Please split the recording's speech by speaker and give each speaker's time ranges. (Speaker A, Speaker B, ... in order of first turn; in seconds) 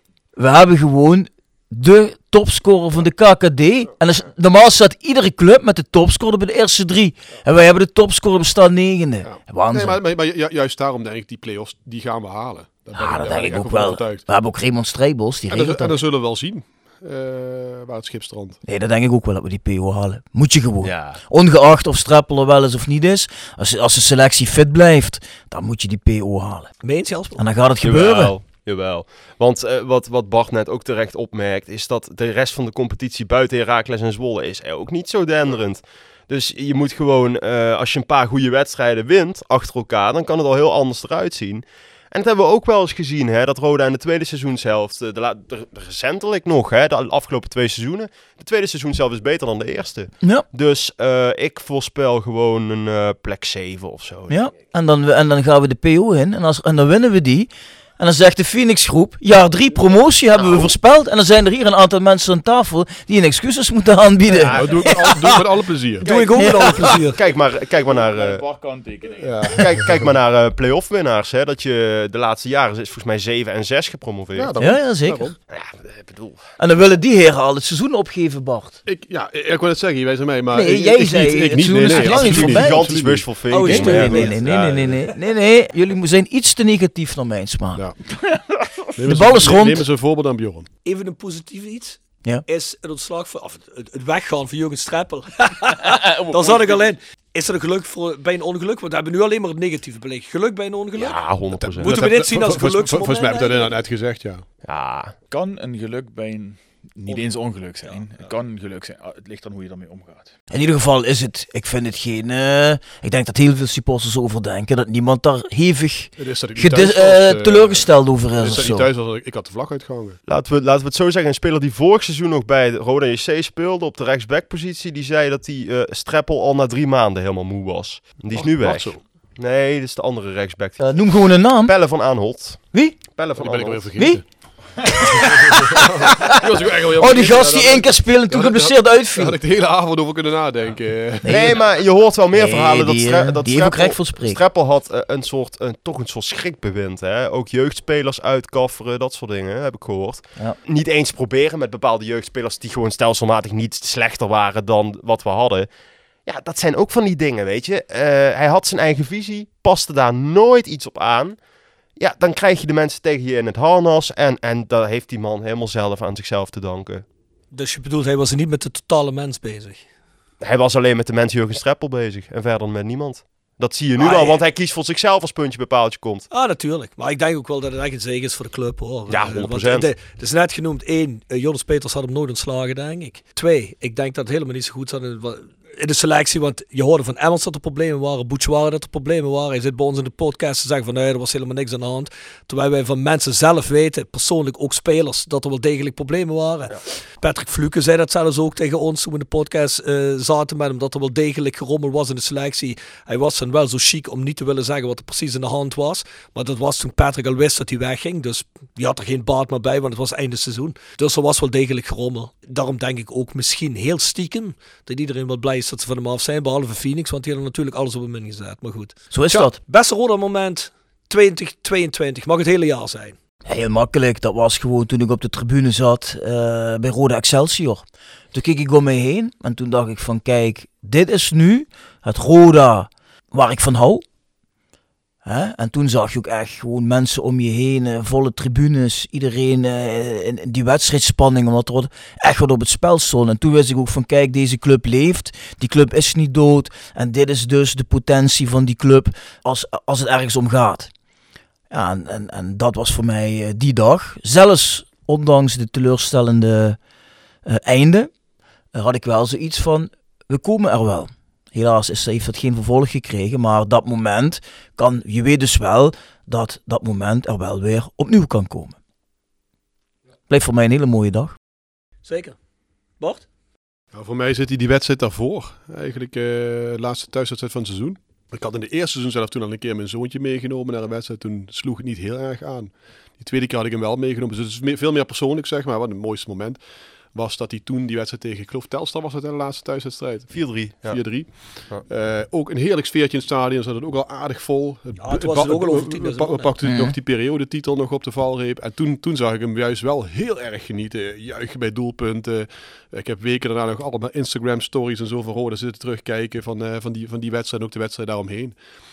Speaker A: 0.4-10.0, 13.0-15.9, 18.7-26.7, 27.4-28.4, 54.3-65.1, 66.4-66.9, 74.6-75.3, 76.6-78.8, 80.5-82.8, 83.5-87.8, 89.1-89.9, 110.5-118.9, 130.8-131.8, 132.7-133.0, 134.0-134.2, 137.0-139.4, 141.2-141.6, 142.3-144.4, 219.1-219.6, 223.4-234.0, 235.2-250.9, 251.7-256.8, 257.4-258.1, 258.7-268.8, 270.3-271.4, 296.6-296.9
Speaker B: 9.2-14.3, 15.5-18.6, 64.4-66.0, 69.2-70.0, 74.3-75.4, 78.8-83.3, 89.0-90.7, 101.6-104.5, 116.2-120.2, 128.3-129.0, 133.3-134.2, 135.2-141.6, 273.9-286.6, 287.1-308.6
Speaker C: 20.8-21.2, 27.8-54.4, 60.4-60.7, 64.4-65.0, 66.0-68.4, 69.6-74.5, 75.5-76.4, 81.9-84.8, 101.0-102.0, 104.6-105.1, 120.3-130.9, 131.6-134.0, 141.3-155.7, 156.3-161.4, 162.0-167.0, 170.4-176.3, 179.1-179.9, 290.3-291.9
Speaker D: 26.8-27.4, 66.0-67.2, 83.5-84.4, 90.8-101.2, 101.8-103.7, 167.5-169.8, 174.0-174.4, 176.3-223.2, 272.1-272.4, 273.0-273.3, 295.0-296.5
Speaker E: 67.4-69.6, 88.3-88.7, 95.8-96.9, 105.3-110.3